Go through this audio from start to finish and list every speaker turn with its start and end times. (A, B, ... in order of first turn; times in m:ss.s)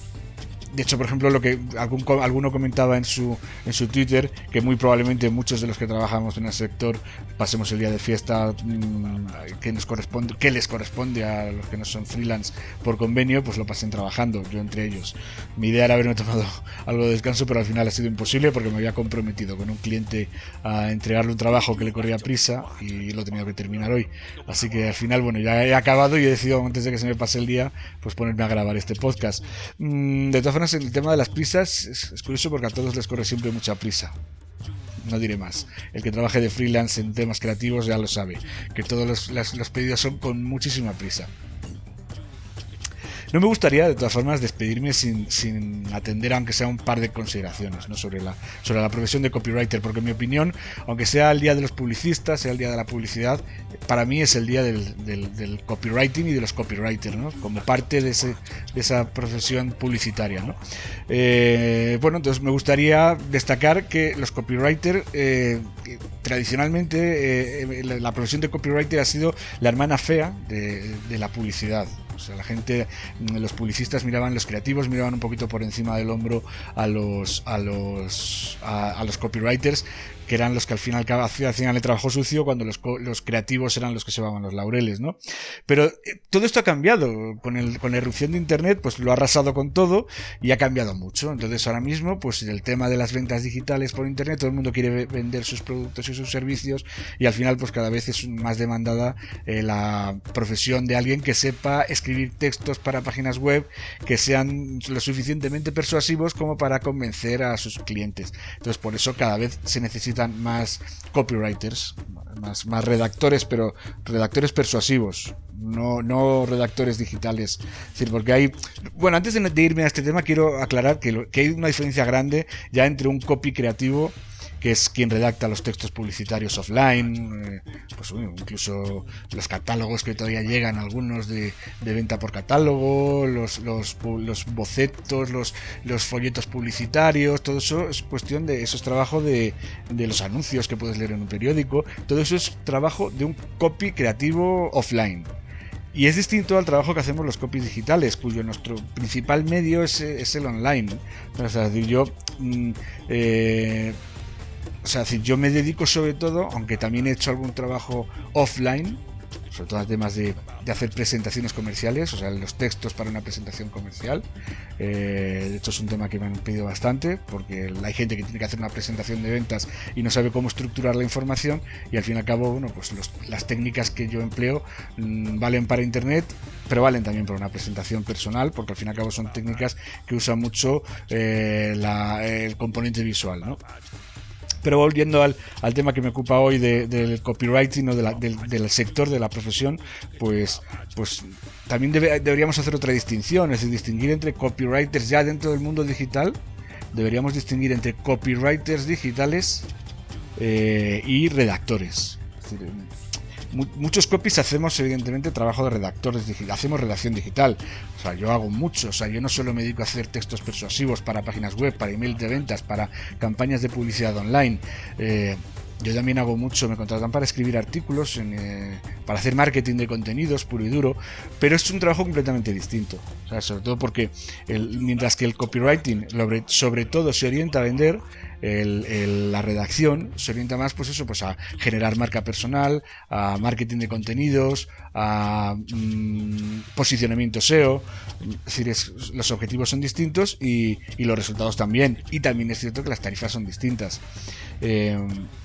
0:00.7-0:34.2 A
0:35.0-0:41.3 A
0:43.3-2:25.3 A
2:25.9-2:34.0 A
2:34.8-2:44.3 A
2:44.8-3:03.6 A
3:04.6-3:16.4 A
3:16.9-3:19.7 A
3:20.4-3:22.9 A
3:23.5-4:04.0 A
4:04.6-4:05.3 A